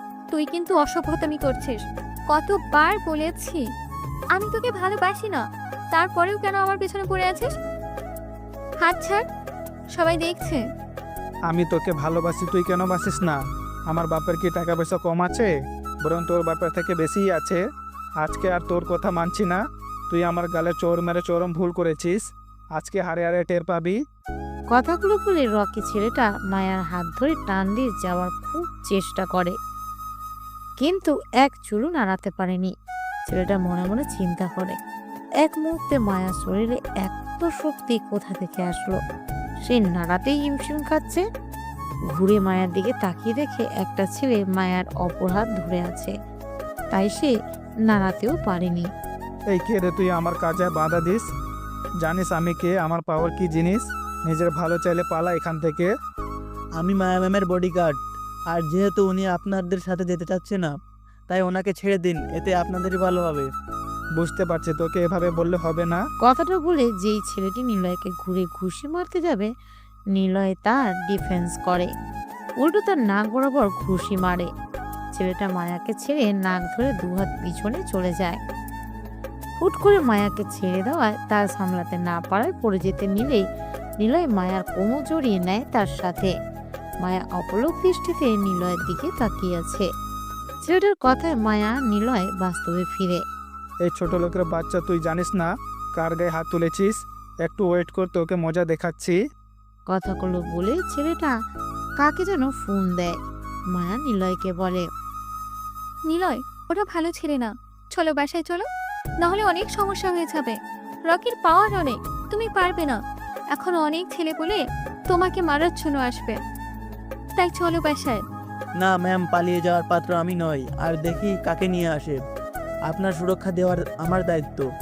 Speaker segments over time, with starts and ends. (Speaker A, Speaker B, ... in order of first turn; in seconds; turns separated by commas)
Speaker A: 0.3-3.6, Speaker A: 4.3-7.5, Speaker A: 8.8-9.2, Speaker A: 9.9-10.6, Speaker B: 11.5-13.4, Speaker B: 13.9-15.5, Speaker B: 16.0-17.6, Speaker B: 18.2-22.2, Speaker B: 22.8-24.0, Speaker C: 24.7-29.5, Speaker C: 30.8-32.7, Speaker C: 33.3-34.8, Speaker C: 35.4-39.0, Speaker C: 39.6-41.2, Speaker C: 42.1-46.1, Speaker C: 46.9-47.3, Speaker C: 47.9-48.9, Speaker B: 49.5-51.2, Speaker B: 52.0-55.9, Speaker D: 56.8-58.0, Speaker D: 58.5-60.7, Speaker D: 61.3-63.5, Speaker B: 64.2-66.0, Speaker C: 66.2-69.5, Speaker C: 70.1-71.9, Speaker C: 72.6-74.5, Speaker C: 75.1-78.4, Speaker C: 79.6-83.4, Speaker C: 84.0-86.3, Speaker C: 87.0-89.8, Speaker C: 90.6-93.2, Speaker B: 93.8-99.2, Speaker C: 99.9-101.3, Speaker C: 102.0-103.1, Speaker C: 103.7-104.8, Speaker A: 106.1-108.7, Speaker A: 109.2-110.5, Speaker A: 111.1-113.0, Speaker A: 113.5-116.4, Speaker A: 117.4-118.2, Speaker D: 118.8-122.2, Speaker D: 122.9-124.7